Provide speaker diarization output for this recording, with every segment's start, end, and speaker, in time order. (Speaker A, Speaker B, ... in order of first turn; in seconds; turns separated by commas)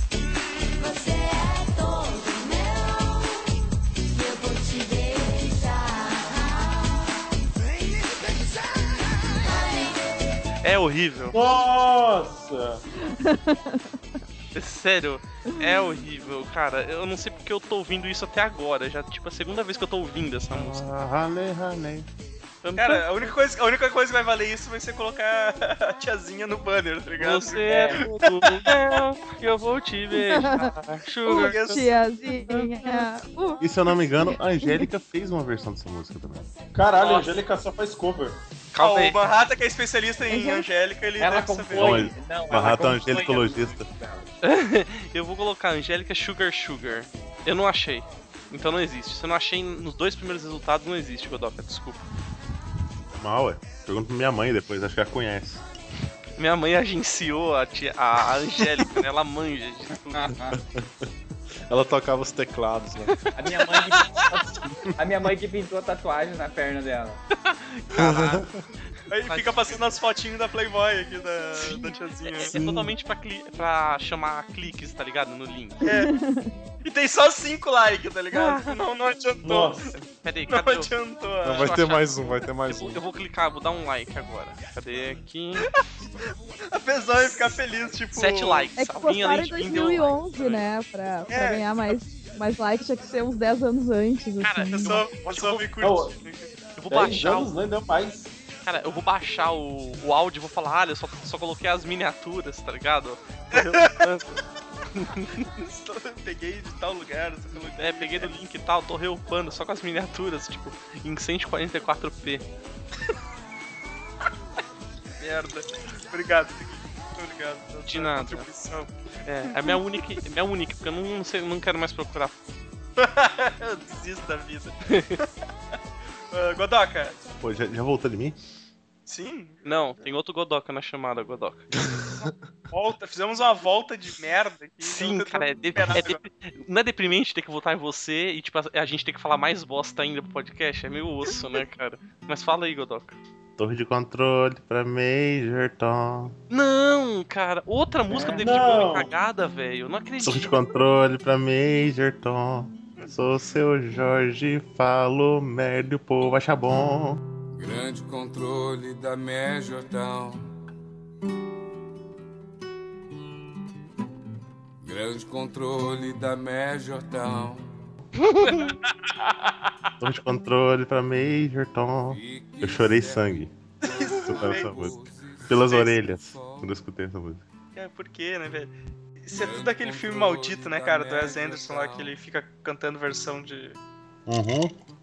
Speaker A: 0.6-3.5, Speaker A: 4.1-7.2, Speaker A: 9.4-10.0, Speaker B: 10.6-11.3, Speaker C: 11.3-12.8, Speaker D: 13.1-13.8, Speaker B: 14.5-20.8, Speaker D: 15.5-16.0, Speaker E: 20.5-22.1, Speaker B: 22.6-23.3, Speaker F: 22.8-28.8, Speaker B: 27.2-31.7, Speaker G: 27.7-28.0, Speaker D: 30.2-30.7, Speaker D: 31.2-34.9, Speaker F: 31.3-31.9, Speaker B: 32.3-33.0, Speaker E: 33.6-36.5, Speaker C: 36.7-38.4, Speaker F: 37.0-37.3, Speaker B: 38.7-39.2, Speaker F: 38.8-42.7, Speaker D: 40.3-40.7, Speaker G: 41.2-44.3, Speaker E: 41.7-43.9, Speaker B: 44.4-52.0, Speaker E: 53.1-55.6, Speaker B: 56.4-60.3, Speaker G: 60.1-60.6, Speaker H: 61.7-63.1, Speaker G: 63.3-67.2, Speaker B: 67.4-68.4, Speaker H: 67.9-68.5, Speaker F: 69.1-72.5, Speaker B: 69.3-70.0, Speaker B: 71.6-75.8, Speaker H: 72.6-72.9, Speaker F: 75.8-76.1, Speaker D: 75.8-76.5, Speaker F: 76.8-79.9, Speaker B: 78.3-78.8, Speaker C: 79.4-79.8, Speaker B: 80.2-80.9, Speaker F: 80.5-81.7, Speaker H: 81.4-83.0, Speaker B: 81.5-85.7, Speaker F: 86.7-88.7, Speaker B: 88.1-90.6, Speaker D: 88.8-95.0, Speaker F: 91.3-92.0, Speaker B: 94.4-95.7, Speaker F: 94.7-96.5, Speaker C: 95.8-96.1, Speaker B: 96.8-97.5, Speaker C: 96.9-98.3, Speaker B: 98.6-104.4, Speaker F: 103.5-104.1, Speaker B: 104.9-105.5, Speaker F: 105.6-108.3, Speaker B: 107.8-112.4, Speaker F: 115.2-118.9, Speaker B: 117.8-118.5, Speaker B: 119.2-122.3, Speaker F: 119.5-119.8, Speaker F: 123.0-125.2, Speaker B: 124.9-125.2, Speaker F: 126.3-127.1, Speaker E: 127.4-128.4, Speaker F: 129.1-129.9, Speaker B: 129.6-131.7, Speaker F: 132.7-136.2, Speaker B: 134.8-143.2, Speaker E: 143.6-146.3, Speaker B: 146.5-150.5, Speaker G: 148.1-148.4, Speaker C: 148.4-149.1, Speaker E: 150.2-157.2, Speaker I: 157.5-160.4, Speaker I: 164.8-167.7, Speaker B: 168.2-168.7, Speaker F: 168.6-169.1, Speaker E: 170.0-173.5, Speaker I: 172.1-176.7, Speaker F: 173.8-174.8, Speaker E: 174.1-174.9, Speaker E: 175.4-177.4, Speaker F: 175.6-175.9, Speaker F: 177.7-183.8, Speaker I: 179.3-182.1, Speaker E: 184.3-184.7